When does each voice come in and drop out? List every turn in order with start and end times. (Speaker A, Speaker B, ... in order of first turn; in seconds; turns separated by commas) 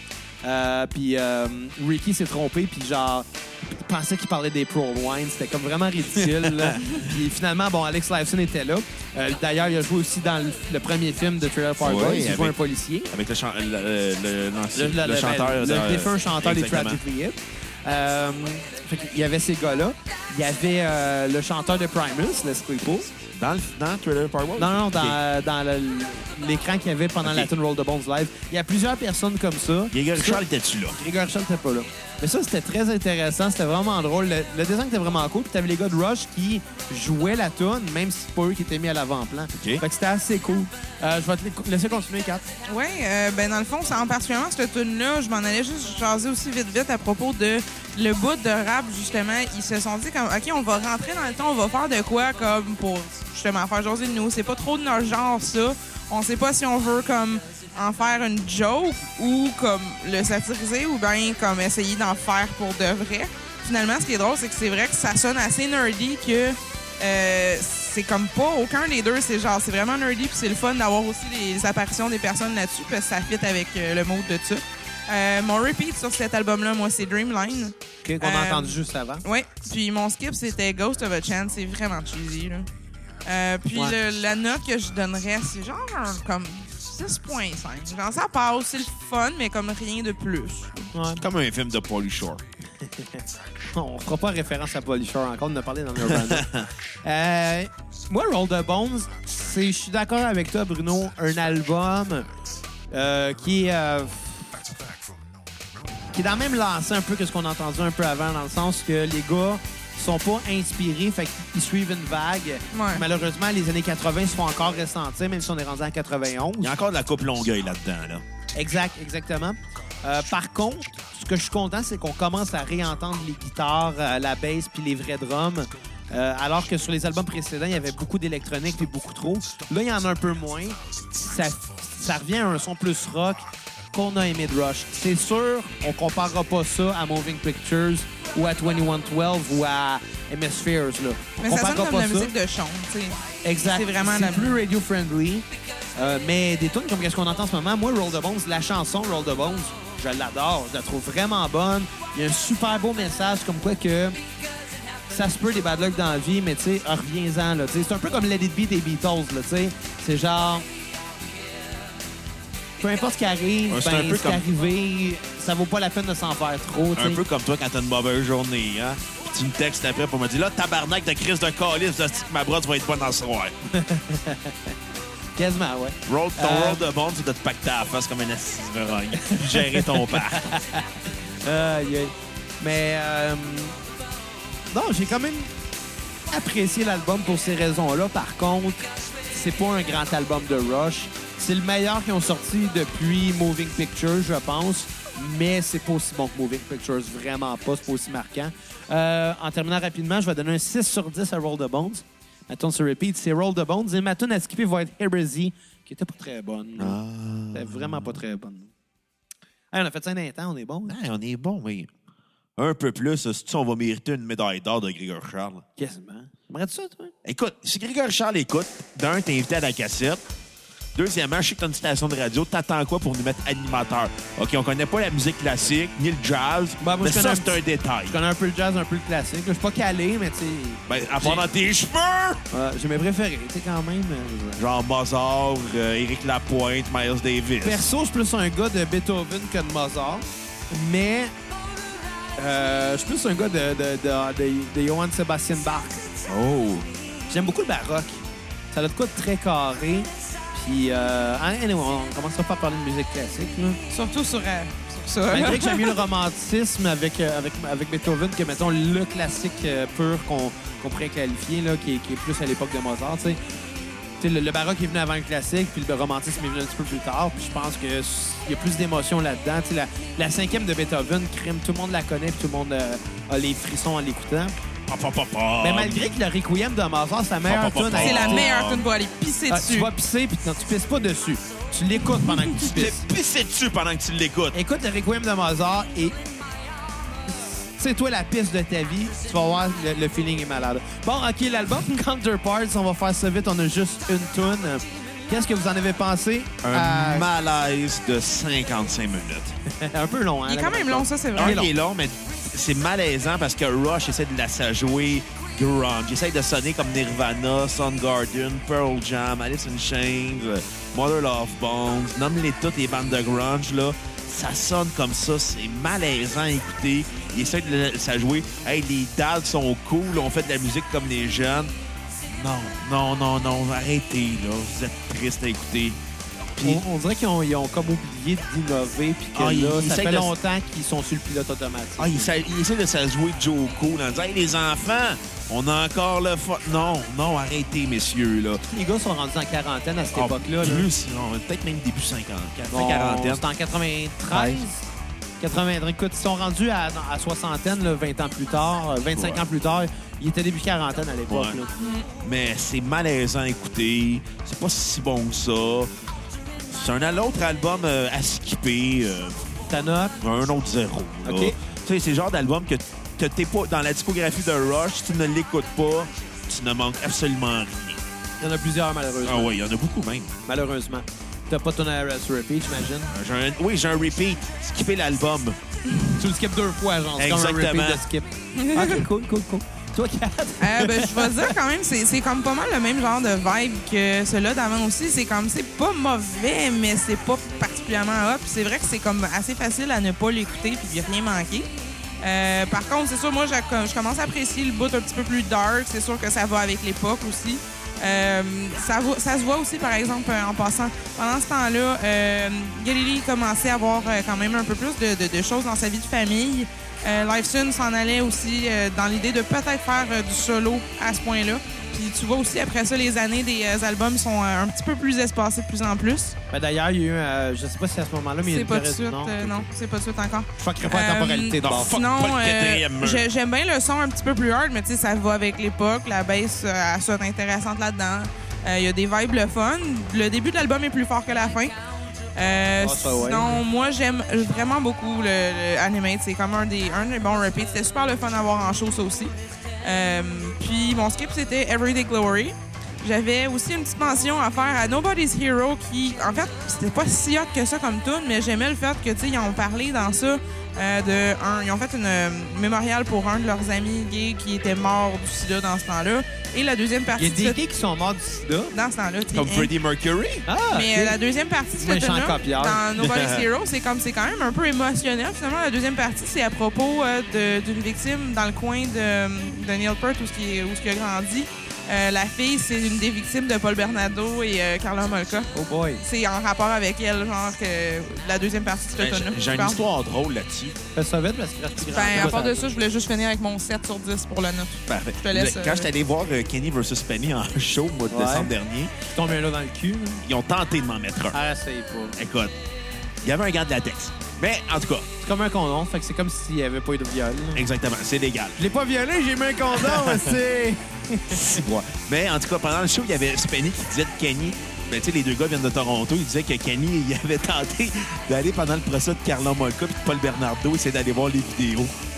Speaker A: 0.4-13.1, Speaker B: 6.1-7.0, Speaker B: 11.8-12.5, Speaker B: 13.1-17.0, Speaker A: 14.7-23.1, Speaker B: 23.3-25.2, Speaker A: 24.6-42.5, Speaker B: 27.2-27.5, Speaker B: 29.9-31.0, Speaker B: 39.5-39.8, Speaker C: 42.6-82.7, Speaker A: 78.0-79.2, Speaker C: 83.2-90.9, Speaker A: 90.9-91.2, Speaker B: 91.2-92.4, Speaker A: 92.8-96.5, Speaker B: 96.0-96.7, Speaker A: 97.0-102.2, Speaker A: 102.9-104.5, Speaker A: 106.1-116.7, Speaker C: 112.7-113.0, Speaker B: 116.6-118.2, Speaker A: 118.5-142.3, Speaker C: 141.4-144.6, Speaker A: 143.4-145.4, Speaker A: 145.9-154.2, Speaker A: 155.1-160.7, Speaker A: 162.8-167.2, Speaker B: 163.7-164.4, Speaker B: 167.0-173.5, Speaker A: 173.7-174.7, Speaker A: 175.3-176.8, Speaker B: 176.1-180.5, Speaker A: 179.2-183.8, Speaker A: 184.7-185.5, Speaker A: 186.3-207.0, Speaker B: 206.8-208.2, Speaker A: 207.5-208.7, Speaker A: 209.7-210.9, Speaker B: 210.9-211.9, Speaker B: 212.6-215.6, Speaker A: 215.8-217.1, Speaker B: 217.2-220.2, Speaker B: 220.9-228.2, Speaker A: 226.8-231.5, Speaker B: 230.9-232.4, Speaker A: 232.5-234.6, Speaker B: 234.6-237.8, Speaker A: 237.6-241.3, Speaker A: 242.3-246.0, Speaker B: 246.3-246.9, Speaker A: 247.3-248.2, Speaker A: 248.7-253.8, Speaker C: 253.9-256.0, Speaker A: 255.3-263.4, Speaker A: 264.2-274.5, Speaker B: 274.9-276.1, Speaker A: 275.6-278.5, Speaker B: 277.4-278.9, Speaker C: 277.9-279.9, Speaker A: 279.5-283.1, Speaker B: 282.6-284.6, Speaker A: 284.5-286.2, Speaker A: 287.2-297.3, Speaker B: 296.6-299.6, Speaker A: 299.7-301.7, Speaker C: 300.5-301.6, Speaker B: 301.3-321.7, Speaker B: 322.3-326.0, Speaker B: 326.6-326.8, Speaker A: 326.6-332.3, Speaker B: 329.3-330.3, Speaker B: 332.0-338.6, Speaker A: 338.7-340.9, Speaker B: 340.1-343.4, Speaker A: 342.7-344.9, Speaker B: 344.3-344.6, Speaker A: 345.4-351.7, Speaker B: 349.1-349.4, Speaker B: 351.3-351.6, Speaker C: 351.8-352.1, Speaker B: 352.2-355.9, Speaker B: 356.7-359.5, Speaker A: 359.7-360.2, Speaker B: 360.2-368.0, Speaker A: 361.2-361.6, Speaker A: 368.4-369.5, Speaker B: 369.2-370.3, Speaker A: 370.4-373.1, Speaker B: 373.1-375.6, Speaker A: 376.1-381.5, Speaker B: 377.2-378.0, Speaker C: 378.6-379.0, Speaker C: 380.6-391.7, Speaker C: 392.2-416.4, Speaker A: 416.5-419.6, Speaker C: 418.4-431.7, Speaker A: 420.6-422.0, Speaker B: 421.6-423.2, Speaker C: 432.3-457.6, Speaker A: 432.8-433.6, Speaker A: 457.2-458.7, Speaker C: 458.7-459.7, Speaker B: 459.3-460.4, Speaker A: 460.4-461.2, Speaker C: 460.7-479.8, Speaker A: 461.8-462.9, Speaker B: 463.0-463.5, Speaker A: 475.5-476.0, Speaker B: 479.0-480.8, Speaker A: 480.9-482.7, Speaker C: 481.9-485.9, Speaker B: 484.9-488.9, Speaker A: 488.1-488.5, Speaker A: 489.1-490.2, Speaker B: 490.2-491.4, Speaker A: 491.3-492.2, Speaker B: 492.1-492.5, Speaker B: 493.2-495.1, Speaker A: 495.2-497.6, Speaker B: 497.5-498.6, Speaker A: 498.6-501.6, Speaker B: 499.7-500.3, Speaker B: 501.3-511.9